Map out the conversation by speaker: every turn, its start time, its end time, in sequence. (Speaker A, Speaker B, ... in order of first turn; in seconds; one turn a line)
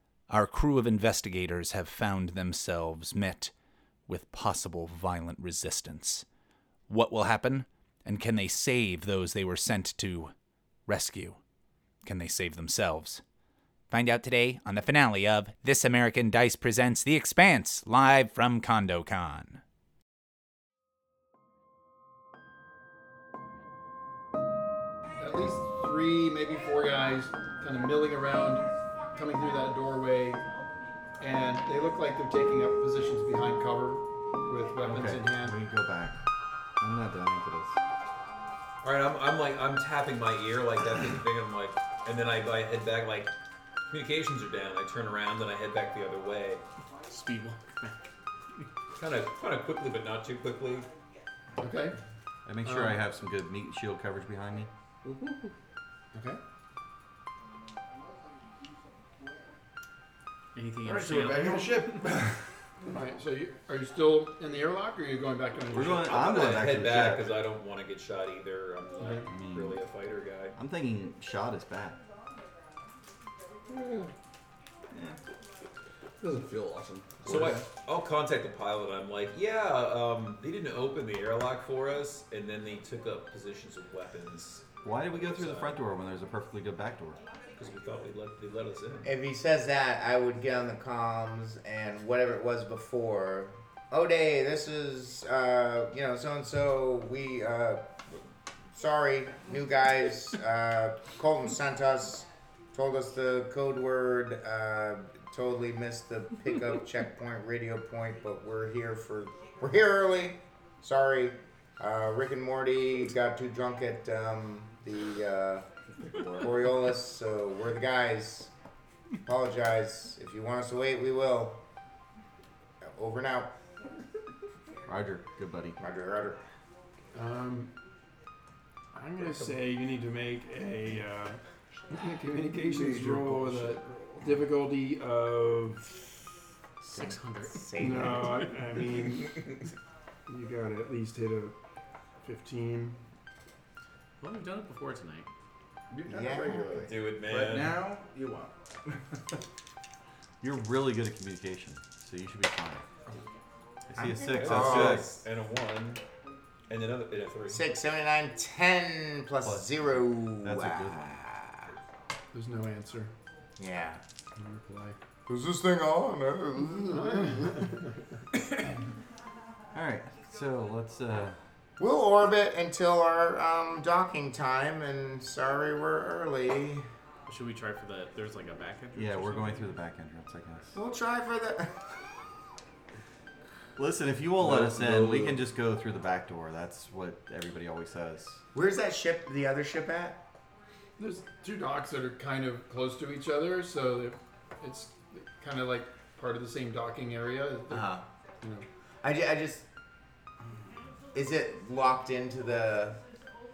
Speaker A: 0.3-3.5
Speaker A: 4.1-6.2
Speaker A: 6.9-10.3
Speaker A: 10.9-11.4
Speaker A: 12.0-13.2
Speaker A: 13.9-19.6
Speaker B: 25.2-30.4
Speaker B: 31.2-35.6
Speaker C: 34.8-36.2
Speaker C: 36.8-37.8
Speaker D: 38.8-43.3
Speaker D: 43.9-46.6
Speaker E: 47.1-48.0
Speaker D: 49.0-50.9
Speaker B: 51.6-52.0
Speaker C: 52.5-54.7
Speaker B: 52.6-53.0
Speaker B: 56.1-56.4
Speaker E: 60.5-62.2
Speaker D: 60.9-62.0
Speaker A: 61.0-62.2
Speaker B: 62.9-66.6
Speaker C: 65.7-67.4
Speaker D: 66.1-70.6
Speaker B: 69.0-69.3
Speaker C: 69.3-69.8
Speaker C: 70.5-72.0
Speaker F: 73.7-74.1
Speaker C: 74.9-75.2
Speaker F: 76.2-77.3
Speaker D: 77.2-85.7
Speaker C: 77.2-77.7
Speaker C: 84.8-87.2
Speaker D: 87.5-89.1
Speaker G: 89.0-98.2
Speaker G: 98.8-118.5
Speaker G: 119.2-121.6
Speaker G: 122.8-123.5
Speaker C: 124.9-125.8
Speaker G: 125.8-126.4
Speaker B: 127.1-127.7
Speaker B: 128.9-136.2
Speaker F: 132.6-134.5
Speaker E: 136.8-137.7
Speaker G: 136.9-138.5
Speaker B: 137.8-139.4
Speaker B: 140.3-141.6
Speaker B: 142.2-143.0
Speaker E: 144.2-145.3
Speaker F: 145.9-146.9
Speaker G: 146.1-147.0
Speaker D: 146.8-147.8
Speaker A: 147.2-149.2
Speaker C: 150.4-152.8
Speaker G: 153.9-155.2
Speaker C: 154.0-155.1
Speaker D: 154.2-156.0
Speaker D: 156.7-157.7
Speaker G: 157.5-161.8
Speaker C: 159.4-159.8
Speaker C: 160.3-161.2
Speaker B: 162.3-163.1
Speaker G: 163.6-164.0
Speaker B: 164.3-165.0
Speaker G: 165.3-167.7
Speaker B: 166.9-167.9
Speaker C: 169.7-171.4
Speaker G: 171.8-176.9
Speaker E: 177.3-179.8
Speaker C: 178.9-180.8
Speaker G: 180.7-181.8
Speaker C: 183.8-188.4
Speaker F: 184.4-185.4
Speaker G: 188.5-190.2
Speaker B: 191.0-198.7
Speaker G: 197.7-198.1
Speaker G: 199.0-199.7
Speaker G: 201.1-203.0